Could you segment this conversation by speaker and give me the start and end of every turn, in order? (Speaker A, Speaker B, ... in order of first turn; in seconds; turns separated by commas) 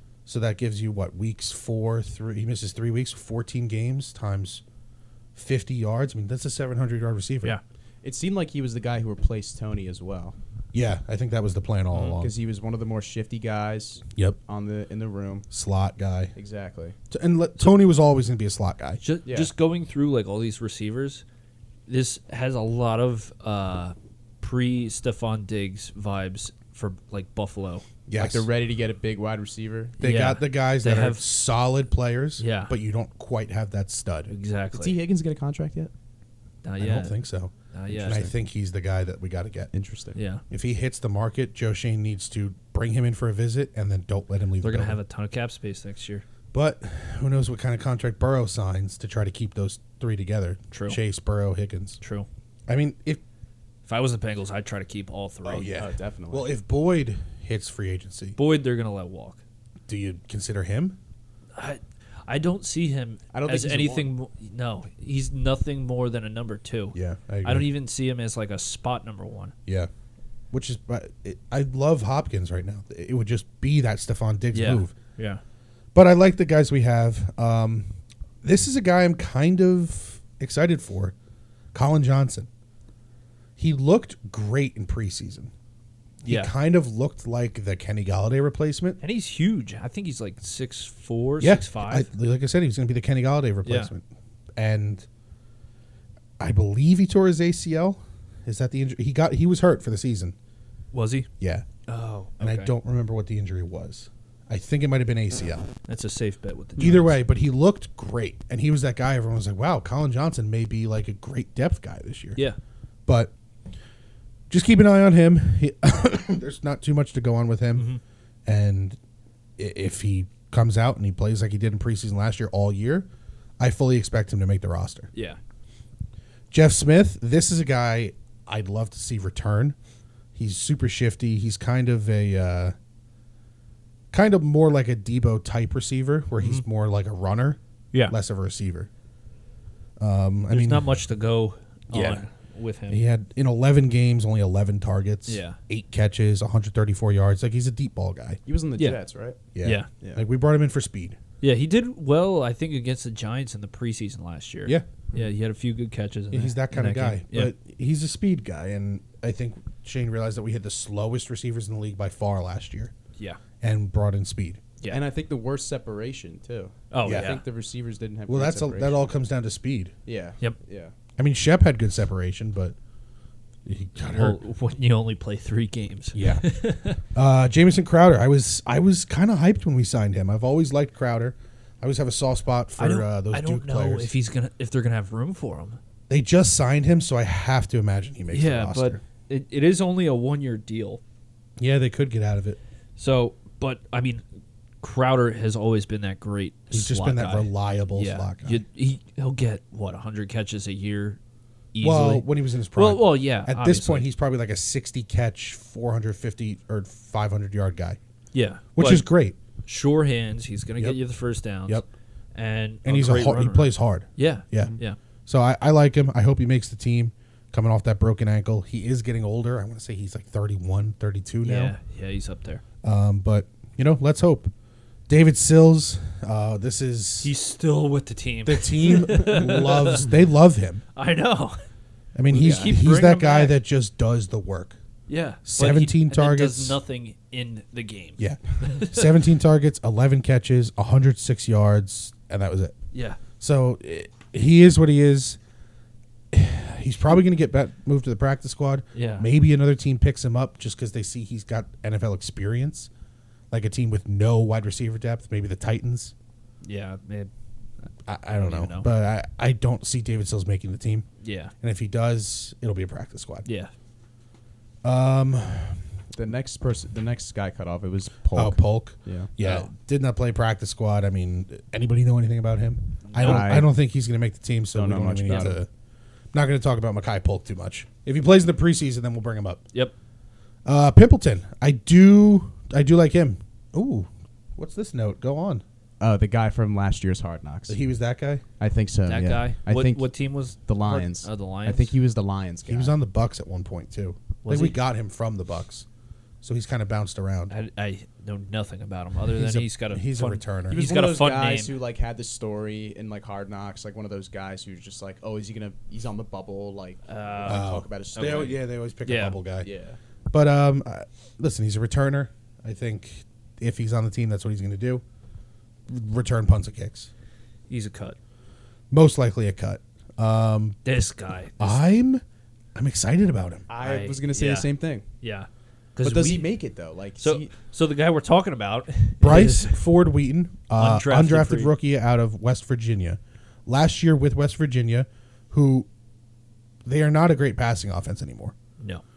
Speaker A: 0.3-4.6, Speaker A: 5.3-7.6, Speaker B: 8.0-10.4, Speaker A: 10.7-12.3, Speaker C: 11.9-12.2, Speaker B: 12.2-15.5, Speaker A: 15.5-16.3, Speaker B: 16.4-17.0, Speaker A: 17.1-19.0, Speaker C: 19.0-21.2, Speaker B: 19.3-19.5, Speaker C: 21.9-27.9, Speaker A: 28.1-28.5, Speaker B: 28.1-30.0, Speaker A: 30.0-34.3, Speaker C: 30.0-31.2, Speaker C: 32.4-32.7, Speaker C: 34.3-35.0, Speaker B: 34.7-35.9, Speaker C: 36.6-37.1, Speaker A: 36.8-39.7, Speaker C: 37.7-38.3, Speaker B: 39.7-40.2, Speaker C: 40.2-40.4, Speaker A: 40.5-45.0, Speaker C: 44.6-46.2, Speaker A: 46.5-52.0, Speaker C: 50.7-51.0, Speaker C: 52.0-52.3, Speaker A: 52.7-53.2, Speaker C: 53.9-55.7, Speaker A: 55.5-58.4, Speaker B: 55.8-56.5, Speaker C: 58.4-59.4, Speaker A: 59.9-61.0, Speaker C: 61.6-69.5, Speaker B: 63.3-64.1, Speaker A: 66.9-67.7, Speaker A: 70.5-74.9, Speaker C: 74.5-75.4, Speaker A: 75.9-77.9, Speaker A: 78.4-81.2, Speaker A: 81.7-82.5, Speaker A: 83.6-85.5, Speaker A: 86.2-89.0, Speaker C: 86.3-86.5, Speaker C: 89.0-92.1, Speaker A: 91.4-94.0, Speaker C: 93.7-93.9, Speaker A: 94.6-95.1, Speaker A: 96.4-100.3, Speaker C: 100.9-101.3, Speaker A: 101.4-101.7, Speaker C: 101.9-102.7, Speaker A: 102.4-105.7, Speaker C: 105.9-107.2, Speaker A: 106.8-112.4, Speaker A: 113.1-113.3, Speaker A: 114.5-117.9, Speaker C: 117.7-118.0, Speaker A: 118.5-119.0, Speaker A: 119.6-125.1, Speaker C: 125.1-125.4, Speaker A: 126.5-129.8, Speaker A: 130.3-132.7, Speaker A: 134.1-138.9, Speaker A: 140.0-140.9, Speaker C: 140.5-143.0, Speaker A: 141.9-142.2, Speaker A: 142.9-148.4, Speaker C: 145.3-145.6, Speaker B: 148.5-149.5, Speaker A: 149.6-151.2, Speaker C: 151.4-157.5, Speaker A: 156.3-162.9, Speaker A: 163.6-164.6, Speaker B: 164.9-169.1, Speaker C: 166.9-167.4, Speaker A: 167.0-167.3, Speaker A: 168.3-169.9, Speaker B: 170.1-170.9, Speaker A: 171.2-172.8, Speaker A: 173.7-174.4, Speaker C: 174.1-177.0, Speaker A: 176.2-176.4, Speaker A: 177.1-184.1, Speaker C: 182.8-185.8, Speaker A: 186.1-189.0, Speaker C: 188.3-191.0, Speaker A: 191.6-192.6, Speaker C: 193.0-194.2, Speaker C: 194.8-201.2, Speaker A: 196.7-198.6, Speaker C: 201.7-204.1, Speaker A: 201.8-208.0, Speaker C: 208.3-209.1, Speaker A: 208.8-209.4, Speaker C: 209.7-215.0, Speaker A: 212.8-214.8, Speaker A: 215.3-221.7, Speaker C: 221.4-222.6, Speaker A: 222.8-224.5, Speaker A: 225.1-227.3, Speaker C: 227.2-230.1, Speaker A: 228.5-230.8, Speaker C: 230.9-231.6, Speaker A: 232.2-234.8, Speaker B: 232.3-232.8, Speaker C: 232.3-233.6, Speaker C: 235.1-239.1, Speaker A: 235.4-236.8, Speaker A: 238.2-242.8, Speaker C: 242.9-243.2, Speaker A: 243.4-245.4, Speaker A: 246.3-252.9, Speaker C: 248.9-249.3, Speaker A: 253.5-256.1, Speaker C: 256.6-257.3, Speaker A: 258.1-261.1, Speaker C: 258.3-258.9, Speaker C: 261.2-261.5, Speaker A: 261.6-263.5, Speaker C: 263.5-263.7, Speaker A: 264.8-265.8, Speaker B: 266.1-269.7, Speaker A: 268.4-275.7, Speaker C: 273.1-273.6, Speaker B: 273.2-273.7, Speaker B: 274.7-275.6, Speaker C: 275.3-275.5, Speaker A: 276.3-279.6, Speaker A: 280.6-285.6, Speaker B: 286.0-287.8, Speaker A: 287.7-288.4, Speaker B: 288.6-290.1, Speaker C: 289.1-291.9, Speaker B: 290.7-292.9, Speaker A: 292.6-295.9, Speaker C: 294.4-294.8, Speaker A: 296.4-297.5, Speaker C: 297.5-301.7, Speaker A: 299.3-300.8, Speaker B: 300.7-308.6, Speaker C: 307.1-307.7, Speaker A: 307.5-309.7, Speaker C: 308.2-308.4, Speaker C: 309.1-309.4, Speaker B: 309.6-310.0, Speaker A: 310.3-315.0, Speaker A: 315.9-317.1, Speaker C: 317.7-318.2, Speaker A: 318.9-320.8, Speaker C: 320.9-321.8, Speaker A: 321.6-322.2, Speaker A: 322.8-323.7, Speaker B: 323.7-325.1, Speaker C: 323.8-324.7, Speaker C: 325.2-326.5, Speaker B: 326.0-327.5, Speaker C: 327.2-329.8, Speaker A: 329.2-335.9, Speaker C: 330.8-331.7, Speaker A: 336.9-338.6